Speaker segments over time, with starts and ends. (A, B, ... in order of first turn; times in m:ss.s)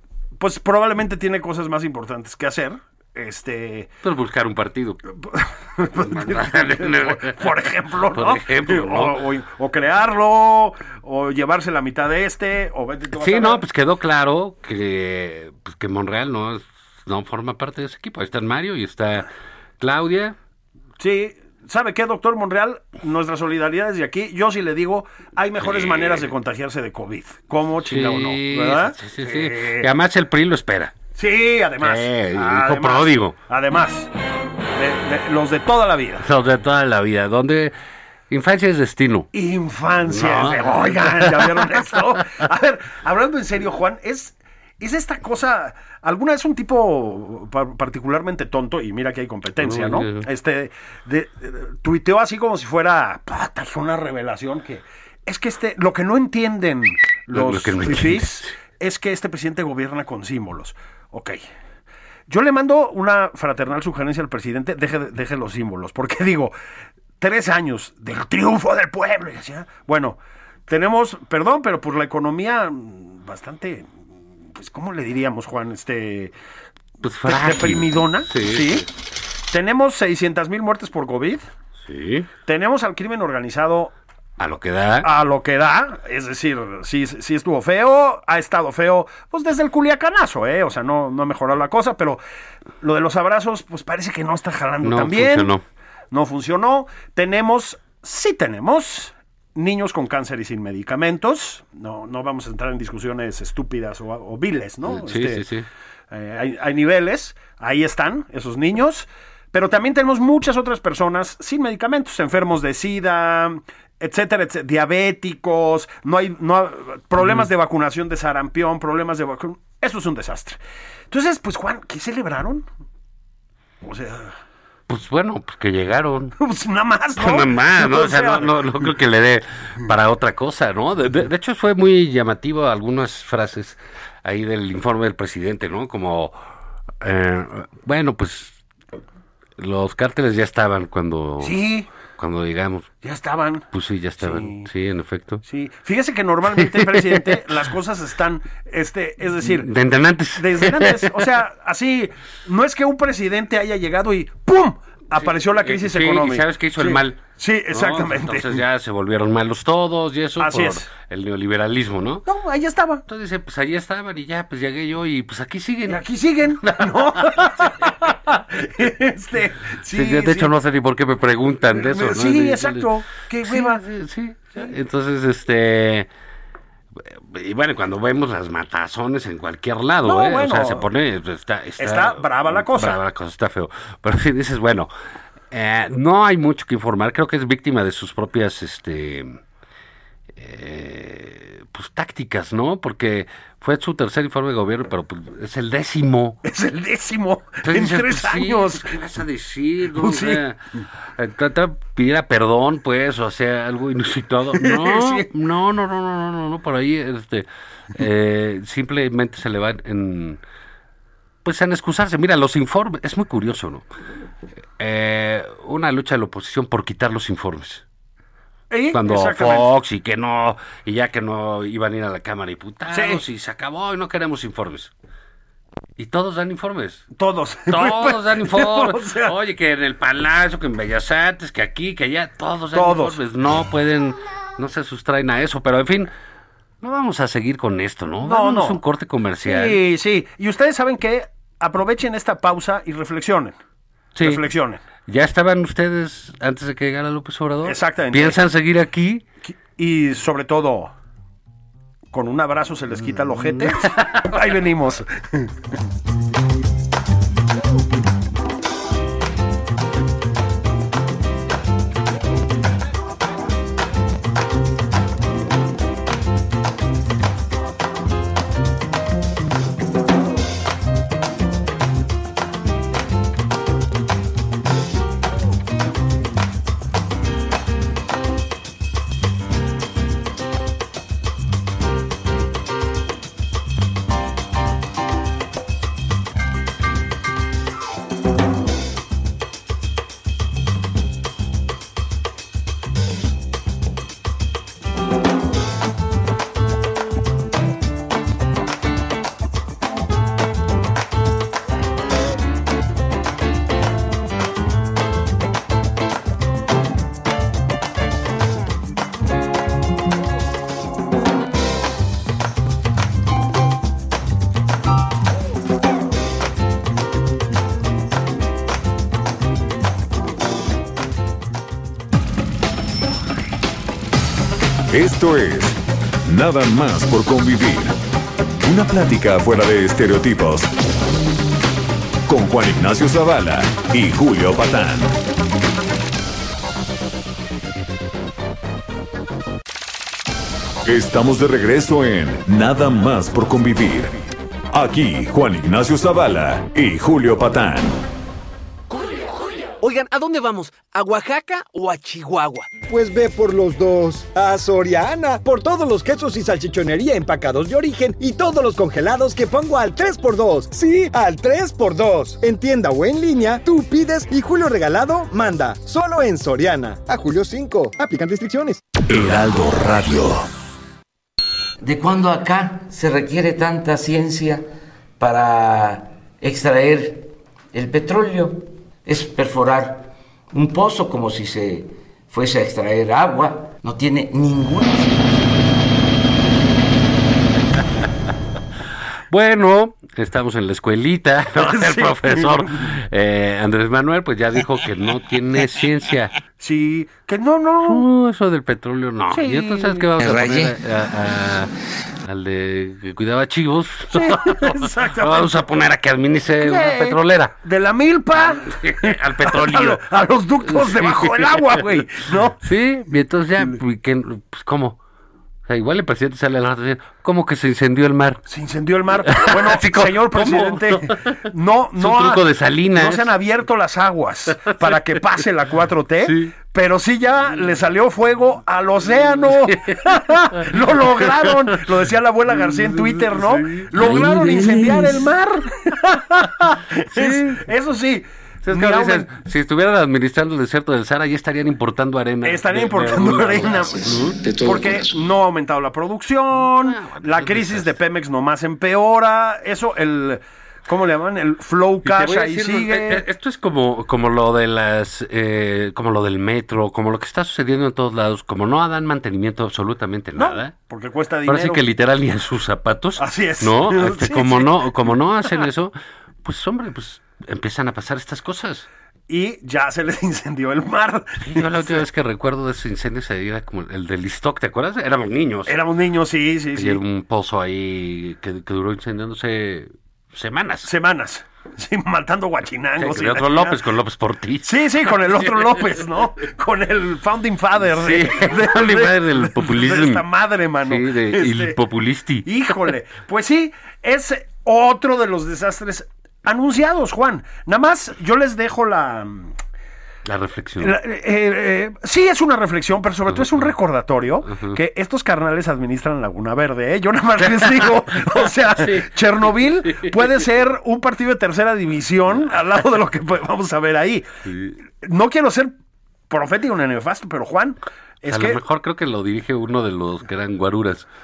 0:00.4-0:03.9 A
0:04.0-0:05.0 B
0:05.2-0:13.6 A
0:06.0-0:09.2 B
0:13.1-0:19.3 B
0:19.8-0:20.4 B
0:21.0-0:29.9 A
0:25.6-0:26.3 B
0:27.8-0:31.0 B
0:31.1-0:34.1 A
0:31.8-0:33.4 B
0:34.7-0:36.2 A
0:36.2-0:37.7 B
0:38.3-0:39.3 B
0:39.3-1:01.4 A
0:40.1-0:42.2 B
0:49.6-0:50.2 B
0:57.3-0:58.5 B
1:02.3-1:06.5 A
1:07.2-1:14.0 A
1:14.5-1:16.3 A
1:17.0-1:18.8 B
1:17.2-1:18.8 A
1:19.5-1:21.4 A
1:21.8-1:22.3 B
1:22.4-1:23.9 A
1:24.4-1:25.1 B
1:25.0-1:32.2 A
1:32.8-1:35.5 A
1:34.8-1:35.6 B
1:36.1-1:45.4 A
1:44.8-1:45.6 B
1:46.1-2:00.6 A
1:57.2-1:57.5 B
2:01.1-2:02.6 A
2:03.8-2:04.3 A
2:04.9-2:06.3 B
2:06.4-2:08.9 A
2:07.2-2:16.3 B
2:17.0-2:18.6 B
2:19.6-2:21.6 B
2:21.4-2:21.9 A
2:22.2-2:22.9 B
2:23.0-2:23.6 A
2:23.7-2:25.4 B
2:24.2-2:24.7 A
2:25.4-2:29.7 A
2:26.5-2:27.6 B
2:29.4-2:31.2 B
2:30.4-2:38.6 A
2:35.2-2:37.2 B
2:37.7-2:42.2 B
2:40.4-2:40.8 A
2:42.3-2:43.0 A
2:43.1-2:46.0 B
2:45.9-2:50.5 A
2:46.6-2:47.6 B
2:49.9-2:52.9 B
2:51.7-2:53.8 A
2:53.4-2:56.1 B
2:57.0-3:04.9 B
3:00.0-3:00.8 A
3:01.8-3:03.0 A
3:05.5-3:09.4 B
3:10.4-3:16.4 B
3:16.4-3:18.9 A
3:17.6-3:20.6 B
3:19.9-3:20.4 A
3:21.2-3:30.4 B
3:24.6-3:25.2 A
3:31.4-3:33.8 B
3:34.8-3:37.8 B
3:38.7-3:39.7 A
3:38.9-3:44.9 B
3:42.9-3:43.2 A
3:46.0-3:47.1 B
3:47.2-3:49.3 A
3:47.7-3:56.1 B
3:52.7-3:53.2 A
3:56.8-3:59.8 B
3:58.2-3:58.8 A
3:59.4-4:03.6 A
4:04.1-4:04.4 B
4:04.2-4:04.8 A
4:05.1-4:09.2 B
4:07.6-4:08.4 A
4:09.5-4:10.9 A
4:12.1-4:15.5 A
4:13.5-4:14.0 B
5:24.9-5:28.0 C
5:28.6-5:30.7 C
5:32.3-5:35.2 C
5:40.8-5:44.1 C
5:44.7-5:48.0 C
5:48.9-5:49.3 D
5:49.8-5:52.7 D
5:52.9-6:08.8 E
6:09.1-6:10.4 C
6:11.8-6:14.6 F
6:15.2-6:25.3 F
6:29.3-6:36.3 B
6:31.6-6:32.9 A
6:36.6-6:38.0 A
6:37.8-6:41.7 B
6:39.3-6:40.0 A
6:40.2-6:40.7 F
6:42.3-6:47.5 B
6:44.1-6:45.6 A
6:46.6-6:52.6 A
6:48.3-6:50.0 B
6:50.6-6:52.1 B
6:52.6-6:55.0 B
6:55.7-6:58.4 B
6:58.5-7:02.4 A
6:59.2-7:01.4 B
7:02.0-7:03.3 B
7:02.9-7:19.3 A
7:04.7-7:05.4 B
7:06.2-7:06.5 B
7:09.4-7:11.8 B
7:12.5-7:14.8 B
7:14.2-7:15.1 F
7:17.1-7:17.6 B
7:18.6-7:24.4 B
7:22.4-7:33.2 A
7:24.3-7:25.2 F
7:26.6-7:27.9 B
7:32.0-7:40.7 B
7:40.4-7:41.8 A
7:41.4-7:45.9 B
7:43.2-7:45.1 A
7:46.4-7:48.9 B
7:49.3-7:52.0 A
7:51.4-7:55.8 B
7:55.7-7:57.0 A
7:56.8-8:00.9 B
8:00.8-8:03.8 A
8:03.0-8:05.8 B
8:04.6-8:11.8 A
8:07.9-8:10.2 B
8:10.8-8:12.4 B
8:12.4-8:19.5 A
8:20.2-8:21.0 B
8:20.8-8:34.2 A
8:23.3-8:23.7 B
8:24.4-8:24.8 B
8:27.4-8:30.4 B
8:34.5-8:34.7 B
8:35.0-8:35.7 A
8:36.3-8:38.6 A
8:38.3-8:41.1 B